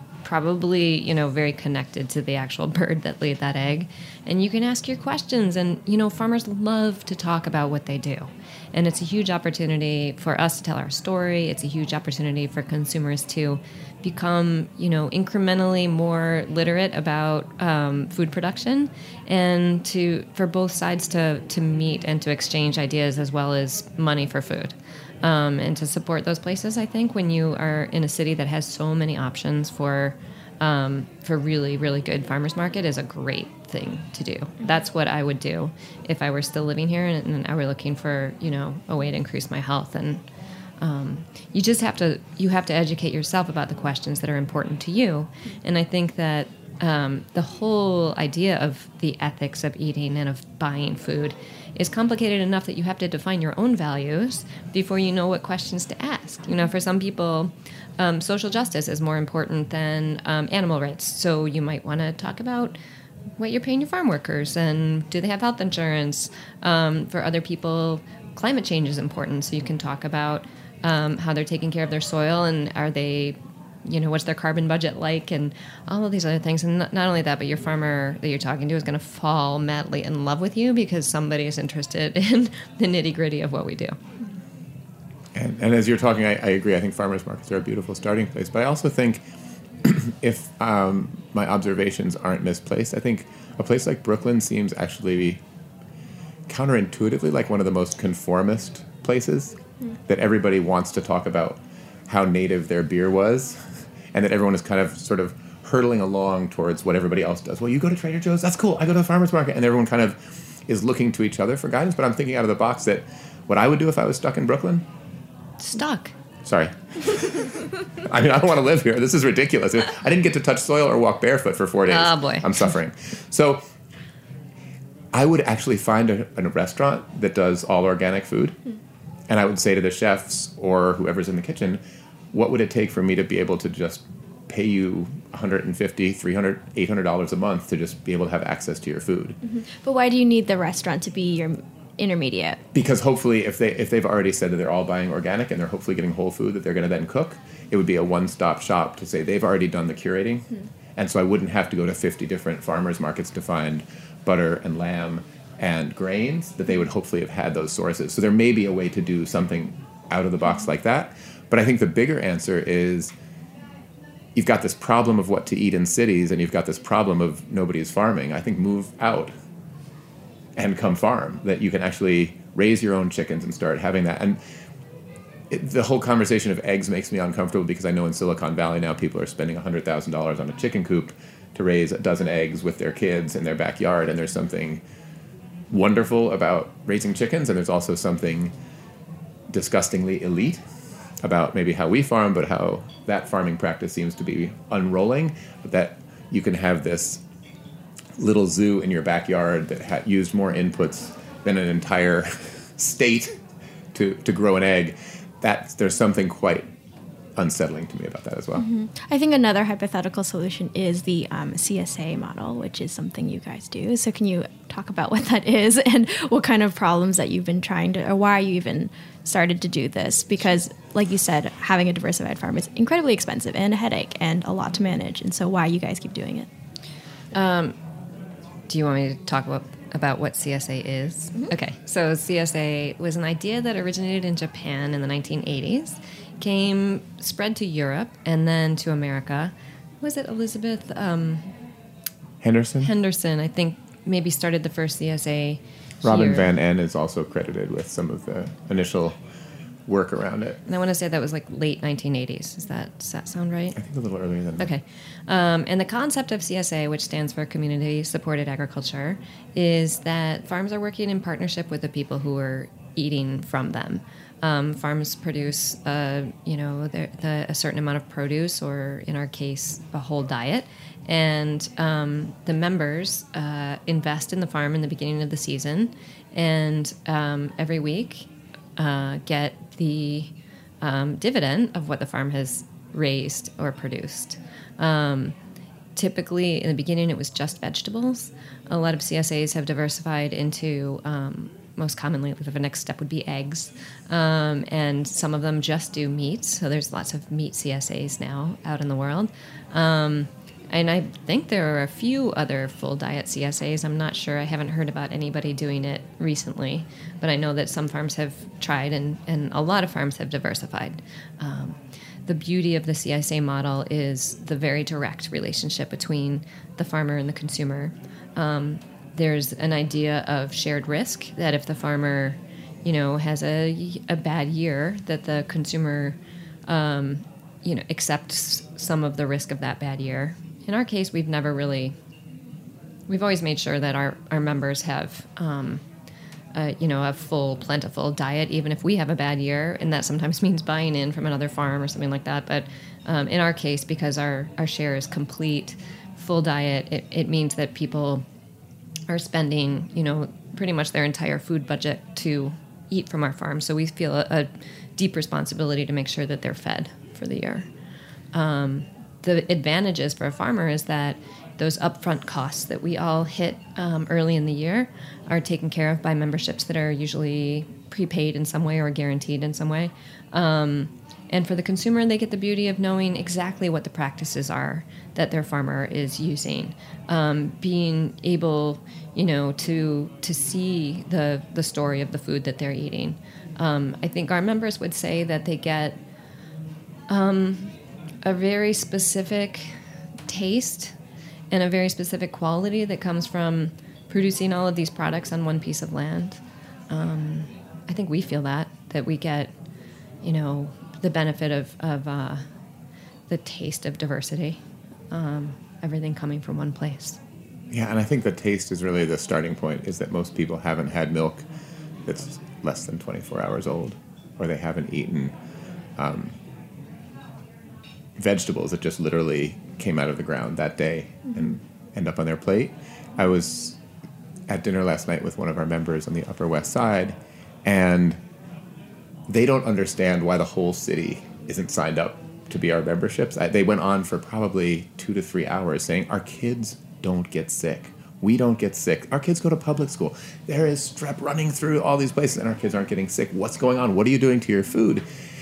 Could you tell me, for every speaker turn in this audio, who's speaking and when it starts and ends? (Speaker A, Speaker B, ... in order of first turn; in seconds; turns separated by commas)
Speaker A: 0.2-40.2, Speaker A: 40.8-62.8, Speaker A: 63.4-84.0, Speaker B: 85.3-89.2, Speaker B: 89.8-95.4, Speaker B: 96.5-103.6, Speaker B: 104.1-114.8, Speaker A: 115.6-116.1, Speaker B: 116.4-123.6, Speaker A: 121.9-122.5, Speaker B: 125.1-128.6, Speaker B: 129.3-131.8, Speaker B: 132.3-139.4, Speaker C: 139.4-142.6, Speaker B: 142.7-163.1, Speaker B: 164.3-169.3, Speaker B: 170.6-174.4, Speaker B: 175.5-184.8, Speaker B: 185.7-188.5, Speaker B: 189.5-190.6, Speaker B: 191.2-197.2, Speaker B: 198.2-203.3, Speaker B: 203.9-206.7, Speaker B: 207.4-208.7, Speaker C: 208.6-226.5, Speaker A: 227.3-227.7, Speaker A: 228.7-241.5, Speaker B: 242.4-242.9, Speaker A: 242.8-246.5, Speaker B: 246.0-249.2, Speaker B: 249.9-250.6, Speaker A: 250.7-253.8, Speaker B: 253.8-254.7, Speaker A: 254.6-280.3, Speaker A: 280.8-285.3, Speaker A: 285.9-331.9, Speaker A: 333.1-335.8, Speaker A: 336.5-348.2, Speaker A: 349.1-357.7, Speaker A: 358.3-386.0, Speaker A: 387.1-387.7, Speaker A: 388.2-389.7, Speaker A: 390.3-390.9, Speaker A: 391.5-399.5, Speaker A: 400.2-402.4, Speaker A: 403.3-404.6, Speaker A: 405.1-407.2, Speaker B: 407.7-411.4, Speaker B: 412.1-415.3, Speaker B: 416.0-416.3, Speaker B: 418.2-423.8, Speaker B: 424.5-428.2, Speaker B: 429.3-445.0